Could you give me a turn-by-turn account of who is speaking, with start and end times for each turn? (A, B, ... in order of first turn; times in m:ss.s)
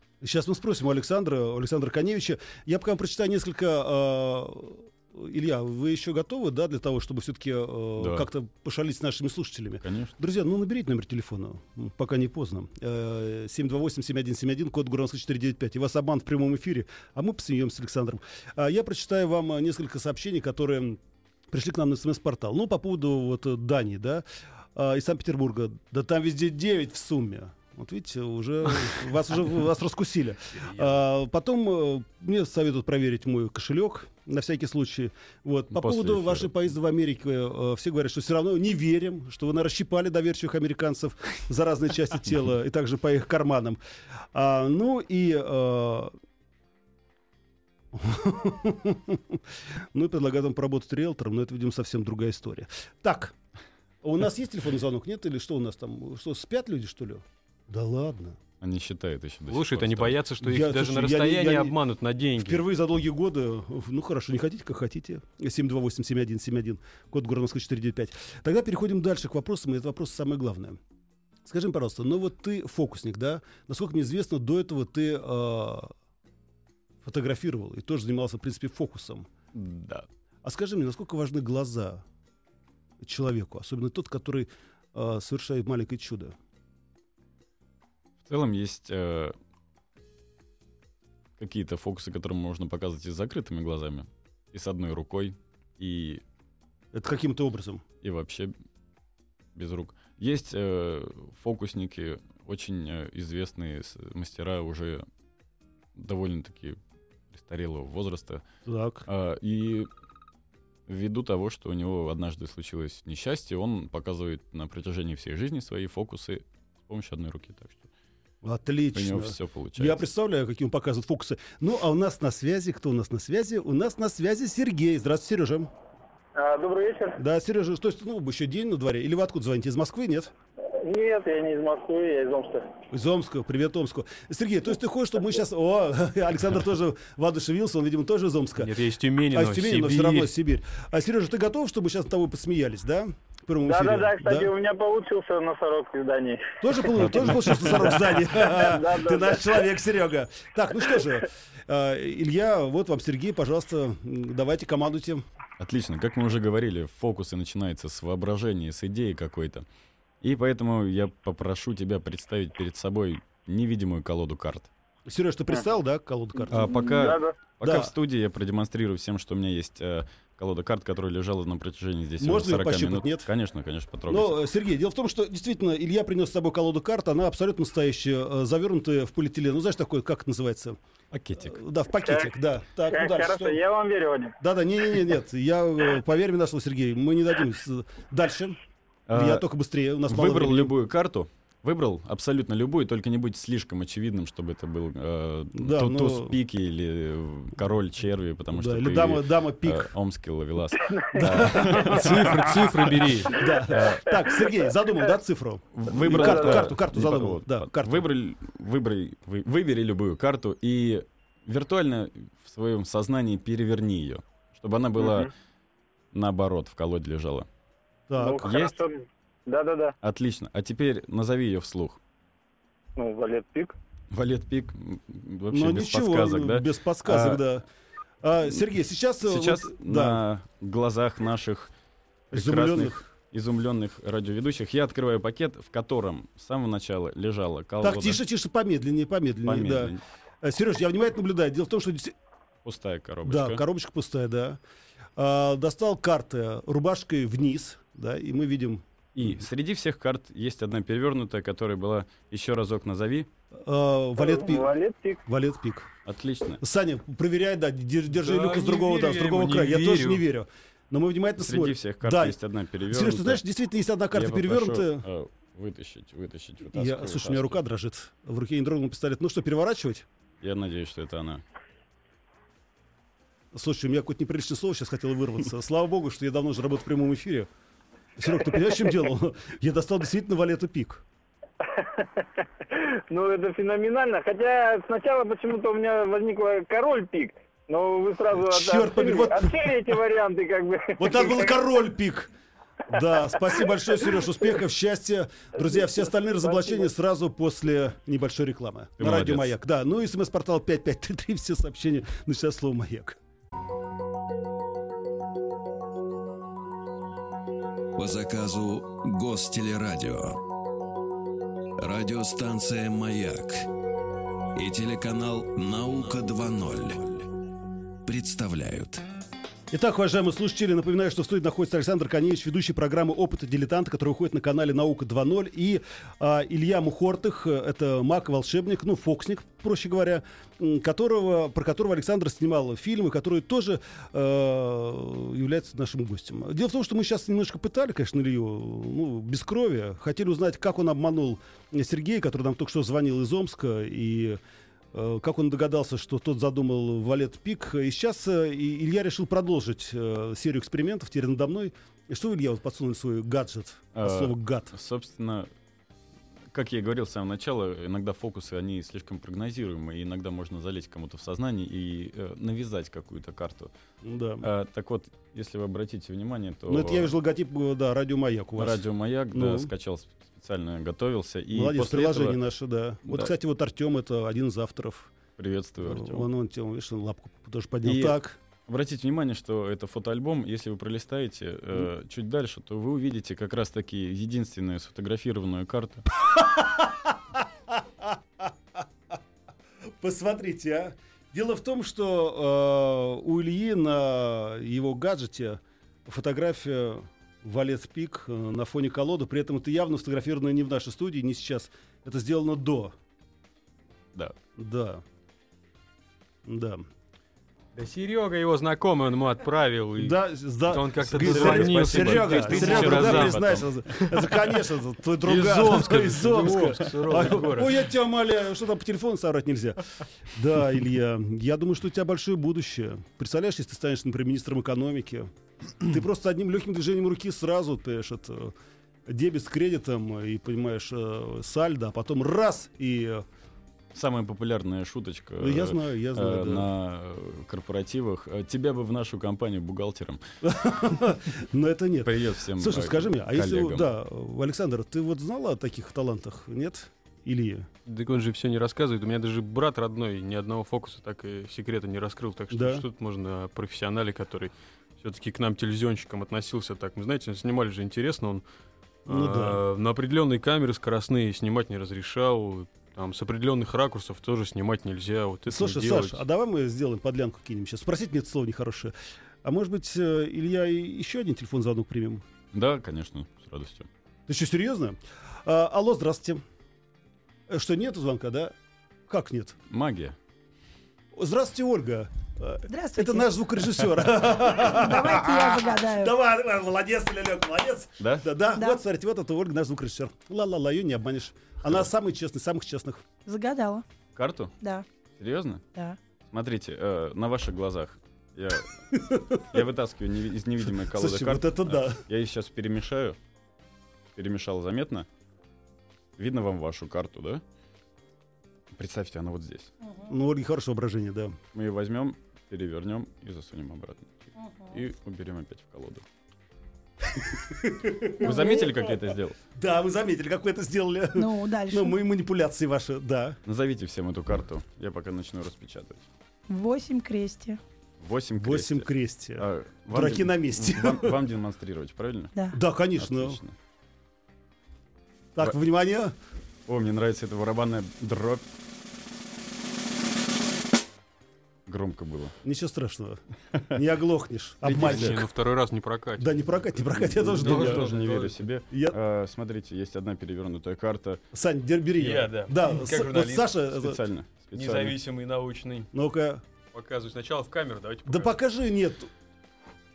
0:00.2-0:24.2 A
0:08.0-0:08.3 B
0:09.8-0:10.1 B
0:24.8-0:43.8 A
0:35.7-0:36.5 B
0:44.3-0:46.1 A
0:47.9-0:53.4 A
0:54.0-0:58.4 A
0:58.6-1:00.2 B
0:59.5-1:02.6 C
1:00.4-1:01.8 A
1:02.4-1:10.8 A
1:11.5-1:15.9 A
1:17.0-1:19.3 A
1:19.5-1:20.1 B
1:20.4-1:22.0 A
1:23.0-1:26.4 A
1:28.2-1:29.4 B
1:31.4-1:36.2 B
1:36.9-1:37.8 A
1:38.0-1:38.5 B
1:39.6-1:45.1 B
1:46.0-1:46.8 B
1:47.3-1:48.4 B
1:48.7-1:49.1 A
1:49.1-1:49.9 B
1:50.9-1:57.8 B
1:58.4-2:05.7 A
1:58.9-2:00.0 B
2:06.4-2:07.2 D
2:07.2-2:10.3 A
2:10.8-2:12.7 D
2:12.9-2:18.7 A
2:18.6-2:20.3 C
2:19.3-2:24.5 A
2:23.6-2:26.6 D
2:26.6-2:35.2 A
2:28.5-2:29.6 D
2:35.6-2:39.6 B
2:40.2-2:44.7 B
2:45.1-2:46.8 A
2:46.5-2:54.4 B
2:46.5-2:47.4 D
2:47.6-2:47.9 A
2:52.2-2:53.3 A
2:54.1-3:00.8 A
3:01.1-3:01.6 B
3:01.4-3:03.6 A
3:02.9-3:04.4 D
3:04.4-3:08.6 A
3:09.1-3:09.5 B
3:09.1-3:10.7 A
3:10.1-3:22.6 B
3:15.6-3:16.4 A
3:18.5-3:19.9 A
3:20.9-3:21.5 D
3:21.2-3:22.4 A
3:21.5-3:23.4 C
3:23.3-3:28.0 A
3:23.7-3:24.1 B
3:25.7-3:35.3 B
3:26.1-3:26.7 D
3:36.1-3:37.5 B
3:38.1-3:38.5 A
3:38.2-3:39.9 D
3:38.4-3:38.8 B
3:40.0-3:42.0 B
3:43.0-3:43.8 D
3:44.1-3:47.5 B
3:45.5-3:47.6 A
3:48.2-3:50.2 A
3:49.2-3:51.7 B
3:52.3-3:58.2 B
3:52.3-3:53.0 A
3:57.8-4:02.2 A
3:59.4-4:00.0 B
4:02.6-4:03.6 B
4:03.2-4:04.6 A
4:05.2-4:09.3 A
4:09.2-4:13.3 B
4:13.6-4:14.7 A
4:14.2-4:15.2 D
4:15.3-4:15.9 A
4:16.1-4:16.6 B
4:16.6-4:22.4 A
4:18.1-4:20.2 C
4:21.4-4:23.4 B
4:22.9-4:25.1 A
4:24.1-4:27.6 B
4:26.7-4:30.1 A
4:30.4-4:31.4 B
4:33.5-4:37.5 A
4:38.2-4:41.0 A
4:41.6-4:51.5 D
4:48.3-4:50.0 A
4:51.0-4:52.3 A
4:52.9-5:03.2 A
4:53.4-4:54.2 D
4:55.6-4:56.8 D
4:59.0-4:59.5 B
5:08.0-5:10.4 E
5:11.8-5:13.7 E
5:14.6-5:17.3 E
5:18.0-5:19.0 E
5:19.7-5:44.4 A
5:44.9-5:54.7 A
5:54.0-5:55.5 B
5:56.5-6:03.7 B
6:04.0-6:04.5 A
6:04.4-6:07.1 B
6:06.7-6:09.7 A
6:08.6-6:12.4 B
6:11.5-6:15.1 A
6:15.4-6:16.3 B
6:15.8-6:18.4 A
6:17.8-6:26.1 B
6:26.3-6:28.8 A
6:29.9-6:43.0 A
6:44.6-6:45.0 A
6:46.4-6:46.9 A
6:47.8-6:53.6 C
6:50.0-7:08.5 A
6:51.1-6:53.7 B
6:55.2-6:57.8 C
7:09.1-7:13.2 A
7:13.9-7:20.2 B
7:15.4-7:16.7 A
7:20.4-7:27.7 A
7:22.0-7:23.9 B
7:27.9-7:38.4 C
7:32.5-7:32.8 A
7:39.1-7:46.2 C
7:39.1-7:39.6 A
7:45.5-7:48.9 A
7:49.4-7:52.2 A
7:52.5-7:53.9 B
7:54.3-7:56.4 A
7:57.5-7:58.6 A
7:59.1-7:59.6 A
7:59.7-8:00.2 B
8:01.1-8:13.1 A
8:02.7-8:03.3 F
8:04.8-8:06.1 F
8:08.0-8:08.3 B
8:13.3-8:13.8 F
8:14.2-8:14.5 B
8:15.2-8:15.6 B
8:16.3-8:23.2 B
8:18.9-8:19.6 A
8:20.8-8:22.0 A
8:24.2-8:25.1 B
8:26.2-8:27.4 B
8:28.8-8:29.7 B
8:29.8-8:30.1 F
8:30.1-8:31.4 A
8:31.5-8:36.0 B
8:34.4-8:34.8 F
8:37.3-8:39.0 A
8:38.1-8:39.4 B
8:38.2-8:38.9 F
8:39.6-8:43.4 A
8:41.2-8:42.0 F
8:43.5-8:46.1 B
8:46.5-8:47.6 F
8:48.0-8:48.9 B
8:48.4-8:51.2 A
8:49.4-8:52.3 B
8:52.5-8:53.4 A
8:53.0-8:53.6 B
8:55.4-8:56.1 A
8:56.7-8:58.4 B
9:01.7-9:02.4 B
9:02.4-9:03.2 A
9:03.7-9:05.3 A
9:04.6-9:08.4 C
9:06.2-9:07.9 A
9:07.1-9:11.2 B
9:08.7-9:09.0 A
9:11.3-9:14.0 A
9:12.0-9:13.5 C
9:13.7-9:15.0 B
9:14.5-9:15.9 C
9:15.9-9:16.4 A
9:16.7-9:18.4 C
9:18.1-9:19.1 A